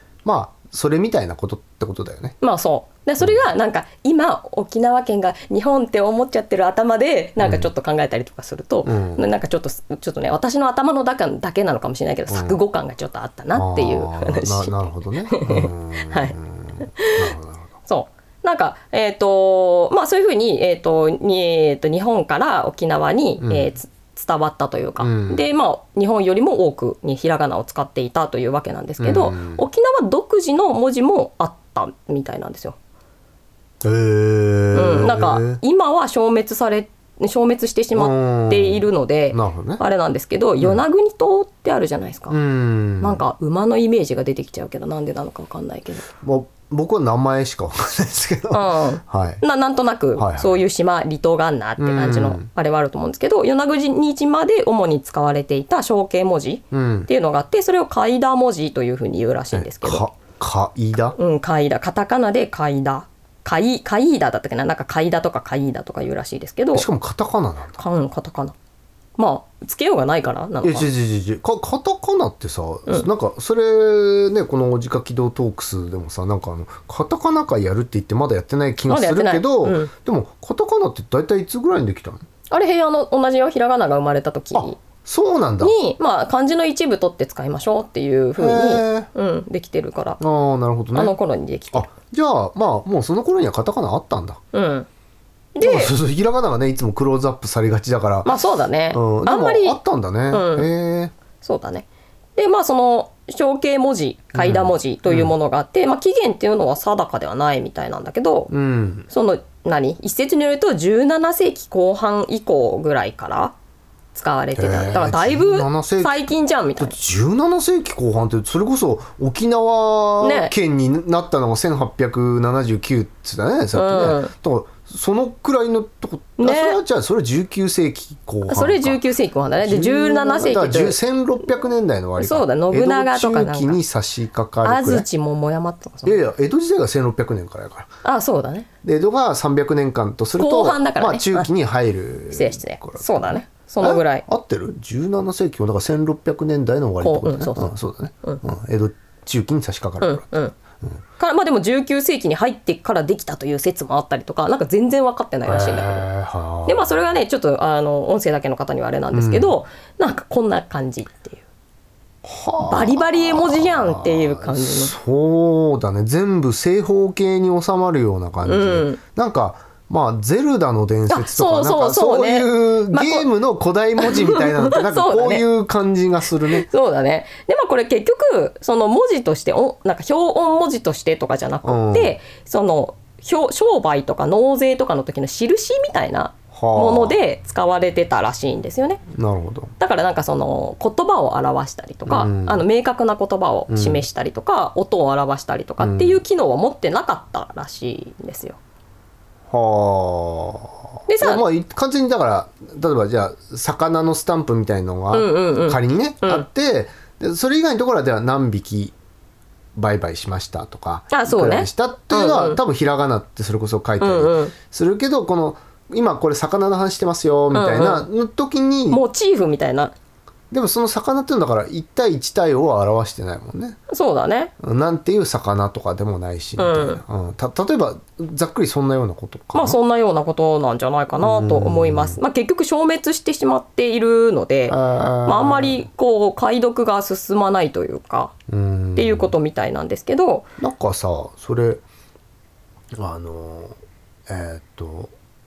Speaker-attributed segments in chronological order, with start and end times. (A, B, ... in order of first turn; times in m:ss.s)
0:00.2-0:02.3 A
0:02.4-0:17.3 B
0:03.2-0:03.4 A
0:07.4-0:07.7 A
0:08.8-0:09.3 A
0:12.3-0:12.6 A
0:13.5-0:17.8 A
0:17.9-0:32.8 B
0:23.4-0:23.7 A
0:25.0-0:25.5 A
0:29.0-0:29.6 A
0:33.8-0:35.6 A
0:34.7-0:42.4 B
0:37.9-0:39.8 A
0:42.3-0:43.2 A
0:43.0-0:46.1 B
0:46.2-0:49.4 A
0:48.5-1:00.0 B
0:50.2-0:50.6 A
0:51.8-0:52.5 A
0:56.7-0:57.1 A
0:59.5-1:01.2 A
1:01.2-1:06.9 B
1:06.7-1:07.8 A
1:07.8-1:08.5 B
1:09.2-1:10.9 B
1:10.6-1:22.2 A
1:18.9-1:19.9 B
1:22.5-1:24.8 B
1:24.5-1:25.8 A
1:25.6-1:30.2 B
1:28.4-1:29.1 A
1:30.2-1:31.2 A
1:30.9-1:31.9 B
1:31.7-1:34.4 A
1:34.5-1:34.9 B
1:35.5-1:35.9 B
1:35.6-1:38.3 A
1:38.2-1:40.7 B
1:38.9-1:41.1 A
1:41.4-1:48.5 B
1:44.3-1:45.3 A
1:48.5-1:49.1 A
1:49.1-1:53.5 B
1:54.1-1:57.0 B
1:54.6-2:09.0 A
2:00.2-2:00.5 B
2:03.7-2:04.3 B
2:06.4-2:06.8 B
2:08.4-2:11.0 B
2:09.6-2:15.0 A
2:12.2-2:13.8 B
2:14.6-2:16.2 B
2:16.0-2:17.9 A
2:18.0-2:18.7 B
2:18.8-2:30.3 A
2:20.4-2:21.5 B
2:22.3-2:24.2 B
2:27.0-2:28.4 B
2:30.0-2:30.5 B
2:31.2-2:36.1 B
2:35.4-2:37.2 A
2:36.6-2:41.4 B
2:39.1-2:39.5 A
2:42.2-2:56.6 A
2:42.6-2:44.9 B
2:48.4-2:49.0 B
2:51.1-2:53.3 B
2:54.0-2:55.4 B
2:56.5-3:09.0 B
3:01.6-3:02.2 A
3:06.5-3:07.2 A
3:09.1-3:09.7 A
3:09.8-3:18.6 B
3:12.1-3:12.6 A
3:13.7-3:14.0 A
3:15.8-3:16.2 A
3:19.5-3:28.9 A
3:21.1-3:21.4 B
3:25.1-3:26.5 B
3:29.8-3:39.0 A
3:31.1-3:32.6 B
3:34.0-3:34.5 B
3:37.5-3:38.1 B
3:38.9-3:39.9 B
3:40.5-3:43.8 A
3:43.9-3:44.5 B
3:44.6-3:49.8 A
3:46.6-3:47.0 B
3:49.5-3:58.3 B
3:51.2-3:52.2 A
3:54.7-3:55.9 A
3:58.5-3:59.3 A
3:59.0-4:00.4 B
4:00.6-4:01.8 A
4:02.9-4:03.8 A
4:04.3-4:05.1 A